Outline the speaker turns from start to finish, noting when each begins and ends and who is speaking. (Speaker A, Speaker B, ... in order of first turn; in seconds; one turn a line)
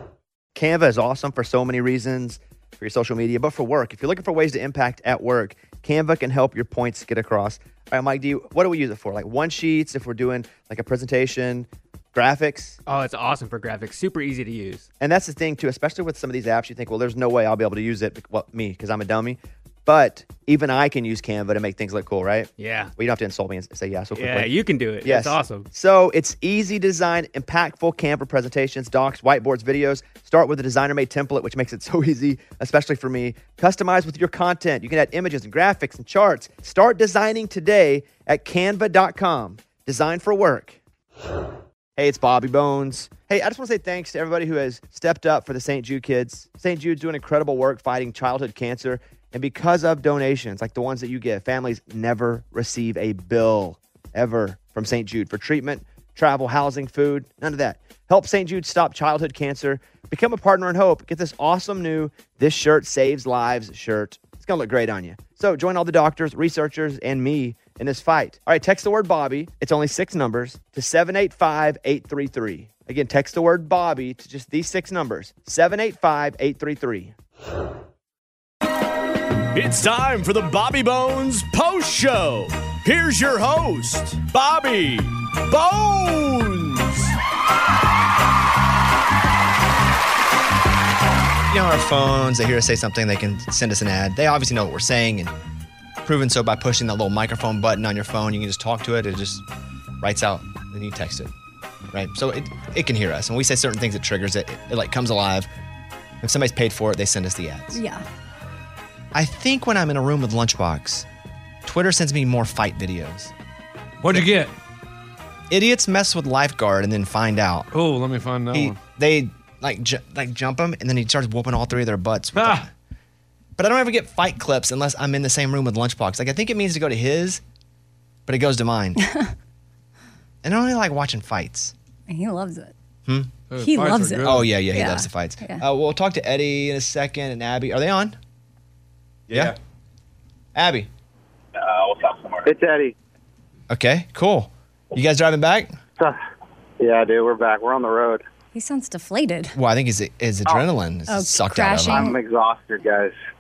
Speaker A: 0.6-12.8
Speaker B: 12.9-14.9
Speaker A: 15.0-40.8
Speaker B: 22.6-22.9
Speaker B: 24.1-25.7
Speaker A: 42.0-77.1
Speaker C: 79.5-87.2
Speaker A: 91.5-95.3
Speaker A: 96.0-99.4
Speaker A: 100.0-101.3
Speaker A: 101.9-105.5
Speaker A: 106.2-107.8
Speaker D: 107.7-108.1
Speaker A: 109.1-111.1
Speaker A: 111.7-113.3
Speaker E: 114.0-114.5
Speaker A: 115.5-117.7
Speaker E: 117.7-118.8
Speaker A: 118.5-122.7
Speaker E: 122.4-122.6
Speaker A: 123.6-127.4
Speaker A: 128.3-129.0
Speaker D: 129.0-129.3
Speaker A: 130.4-131.8
Speaker D: 132.1-132.7
Speaker A: 133.1-133.3
Speaker E: 133.5-134.5
Speaker D: 133.6-135.6
Speaker A: 134.2-138.2
Speaker C: 139.3-139.6
Speaker A: 140.6-140.9
Speaker F: 141.8-142.9
Speaker A: 143.7-145.8
Speaker F: 146.8-148.2
Speaker D: 148.5-149.6
Speaker A: 149.5-152.1
Speaker D: 151.1-152.2
Speaker F: 151.9-153.2